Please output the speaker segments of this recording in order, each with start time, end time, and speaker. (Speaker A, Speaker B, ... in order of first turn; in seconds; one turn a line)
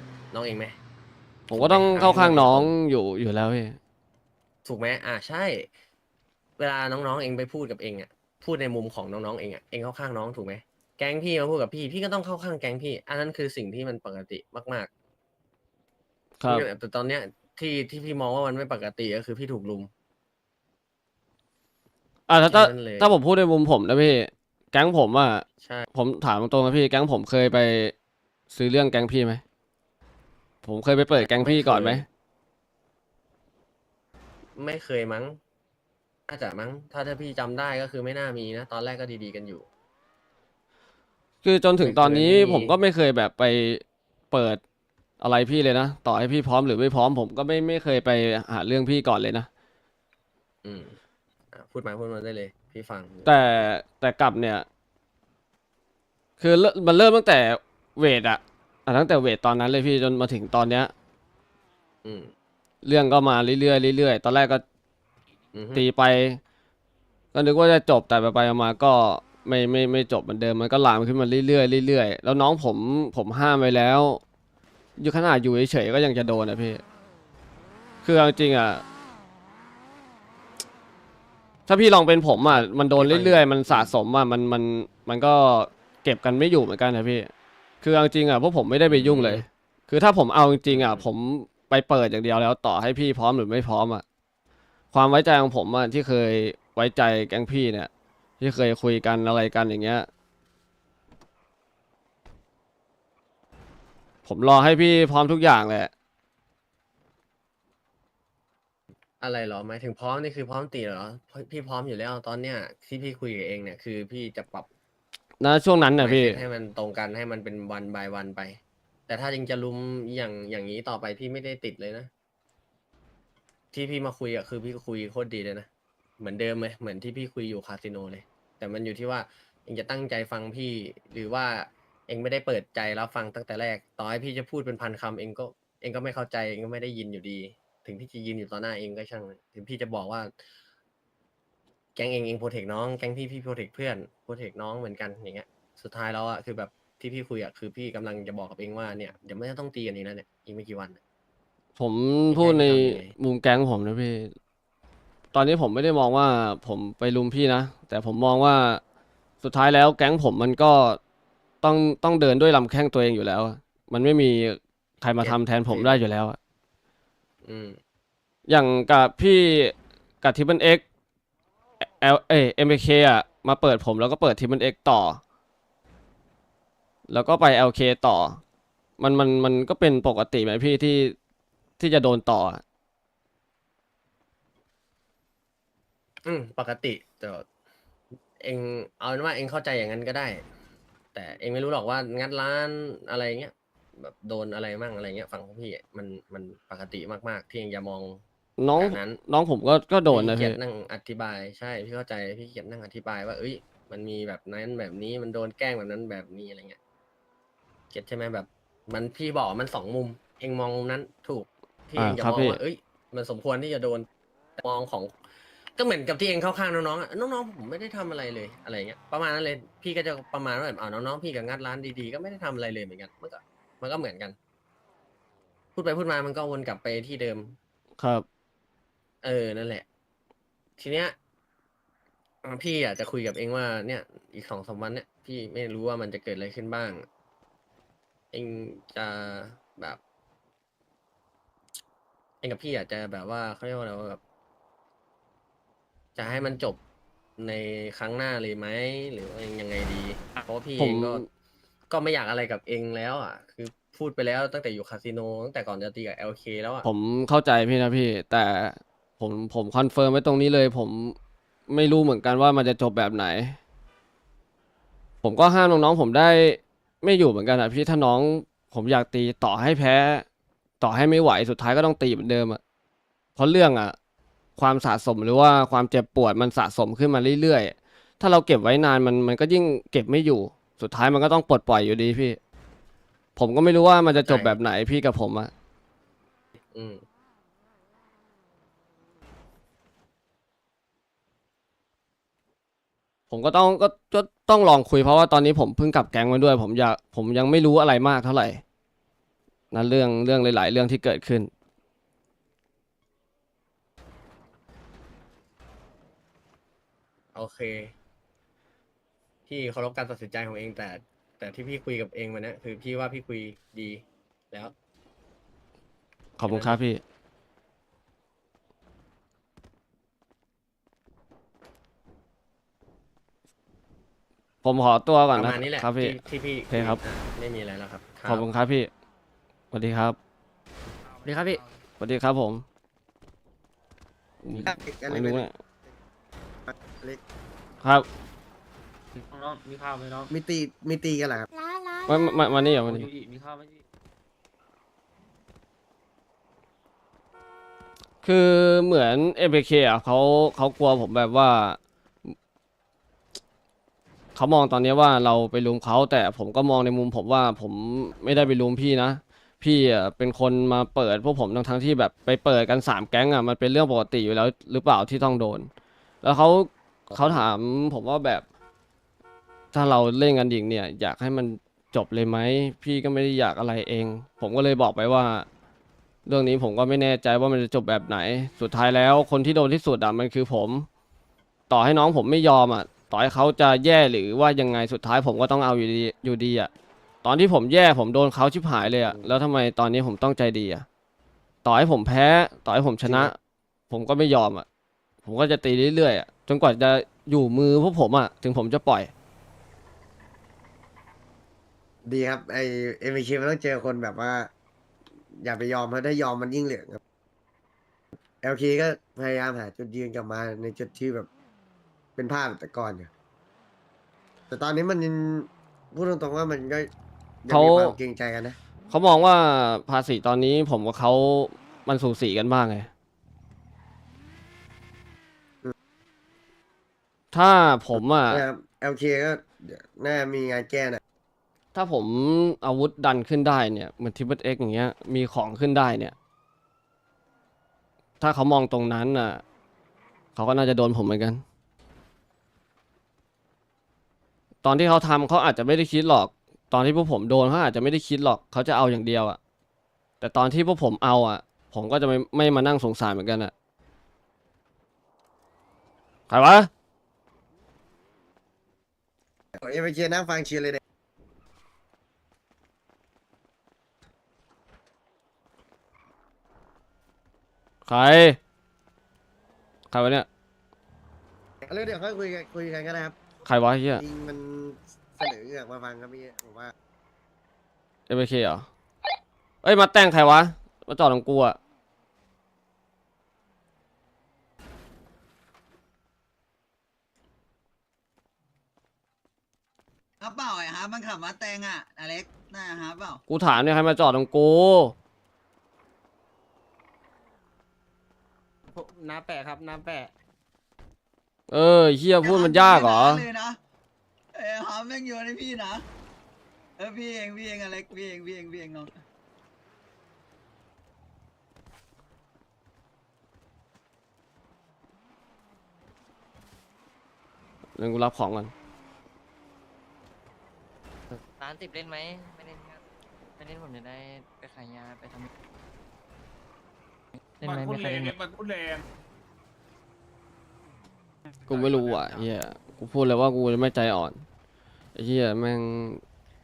Speaker A: 0.3-0.8
Speaker B: 1.5-3.8
Speaker A: 1.5-2.7
Speaker A: 4.6-5.7
Speaker A: 6.6-14.9
Speaker B: 16.4-16.7
Speaker A: 16.5-19.9
Speaker B: 22.3-27.9
Speaker A: 22.4-23.1
Speaker A: 25.6-25.9
Speaker B: 28.5-29.4
Speaker B: 30.6-32.1
Speaker A: 31.2-32.1
Speaker A: 34.6-35.4
Speaker A: 36.3-39.7
Speaker B: 41.4-44.6
Speaker A: 41.8-42.8
Speaker B: 45.2-49.5
Speaker A: 50.6-51.0
Speaker A: 51.5-53.4
Speaker B: 53.2-54.7
Speaker B: 56.4-60.9
Speaker A: 62.0-62.3
Speaker B: 62.8-64.6
Speaker A: 65.5-65.9
Speaker B: 65.7-66.4
Speaker B: 67.3-74.2
Speaker B: 75.0-76.8
Speaker B: 78.0-78.8
Speaker B: 81.7-87.3
Speaker A: 82.5-84.0
Speaker B: 87.8-94.0
Speaker A: 88.9-89.4
Speaker A: 90.7-91.1
Speaker B: 94.9-100.1
Speaker B: 104.2-105.9
Speaker A: 109.2-114.7
Speaker B: 115.4-116.4
Speaker A: 116.0-122.1
Speaker A: 123.7-125.7
Speaker A: 126.2-140.3
Speaker A: 141.9-151.0
Speaker B: 151.8-154.3
Speaker A: 152.3-153.1
Speaker B: 155.3-158.8
Speaker B: 159.4-161.0
Speaker B: 161.6-166.4
Speaker A: 165.2-166.0
Speaker A: 167.4-167.8
Speaker B: 168.5-170.8
Speaker B: 171.8-175.2
Speaker B: 177.1-178.4
Speaker B: 179.0-181.2
Speaker B: 181.8-182.6
Speaker A: 186.2-187.4
Speaker A: 188.4-190.4
Speaker A: 191.1-198.2
Speaker B: 198.6-200.6
Speaker A: 198.8-199.2
Speaker A: 200.1-206.8
Speaker A: 207.9-214.1
Speaker B: 212.0-212.6
Speaker A: 214.6-215.2
Speaker A: 215.8-224.4
Speaker A: 225.8-227.6
Speaker B: 228.0-228.2
Speaker A: 229.2-229.8
Speaker A: 230.8-231.2
Speaker A: 232.4-237.0
Speaker A: 238.3-240.0
Speaker A: 242.4-244.2
Speaker A: 246.2-246.8
Speaker A: 247.4-251.2
Speaker B: 250.8-251.3
Speaker A: 251.9-256.9
Speaker B: 256.8-261.2
Speaker B: 261.7-263.6
Speaker B: 265.2-270.2
Speaker B: 270.8-272.6
Speaker B: 273.4-273.9
Speaker B: 274.6-282.4
Speaker B: 283.4-285.5
Speaker A: 284.1-284.6
Speaker A: 286.7-287.0
Speaker B: 293.3-298.6
Speaker B: 299.7-301.5
Speaker A: 307.3-307.9
Speaker A: 309.5-314.7
Speaker B: 316.4-317.0
Speaker A: 316.4-316.8
Speaker B: 324.6-326.2
Speaker A: 325.3-328.5
Speaker B: 326.7-327.0
Speaker B: 328.2-328.9
Speaker B: 329.7-330.2
Speaker A: 331.3-331.6
Speaker B: 332.0-332.6
Speaker B: 334.4-335.5
Speaker C: 334.6-335.5
Speaker C: 336.7-337.2
Speaker B: 337.8-338.1
Speaker C: 340.3-341.5
Speaker B: 342.1-343.1
Speaker B: 348.2-352.3
Speaker B: 354.4-365.7
Speaker B: 366.2-368.4
Speaker B: 369.7-375.5
Speaker B: 376.3-380.9
Speaker B: 381.7-386.7
Speaker B: 387.2-390.9
Speaker C: 389.1-389.3
Speaker B: 391.6-393.4
Speaker C: 393.1-393.3
Speaker B: 393.9-394.6
Speaker B: 395.2-399.1
Speaker C: 402.0-404.5
Speaker C: 405.4-407.0
Speaker C: 408.4-411.3
Speaker C: 412.2-413.1
Speaker C: 414.5-416.9
Speaker C: 417.4-418.6
Speaker B: 417.5-418.0
Speaker B: 418.9-422.9
Speaker B: 427.3-428.4
Speaker C: 428.3-431.0
Speaker B: 431.7-436.1
Speaker B: 438.2-439.4
Speaker B: 440.4-441.4
Speaker B: 444.6-449.4
Speaker B: 450.2-453.5
Speaker B: 456.3-456.7
Speaker C: 459.6-460.8
Speaker B: 467.9-468.4
Speaker B: 469.9-470.3
Speaker C: 471.6-473.2
Speaker B: 473.4-474.0
Speaker C: 474.0-476.7
Speaker B: 478.1-478.7
Speaker B: 479.6-481.6
Speaker D: 490.2-493.2
Speaker B: 493.3-494.9
Speaker A: 498.7-500.1
Speaker B: 501.5-503.3
Speaker D: 502.2-503.6
Speaker D: 504.3-505.9
Speaker D: 506.8-508.9
Speaker B: 517.8-518.5
Speaker E: 521.1-522.8
Speaker E: 523.4-525.3
Speaker E: 527.4-528.2
Speaker F: 527.4-528.8
Speaker B: 531.5-534.2
Speaker F: 531.5-532.2
Speaker B: 535.0-536.0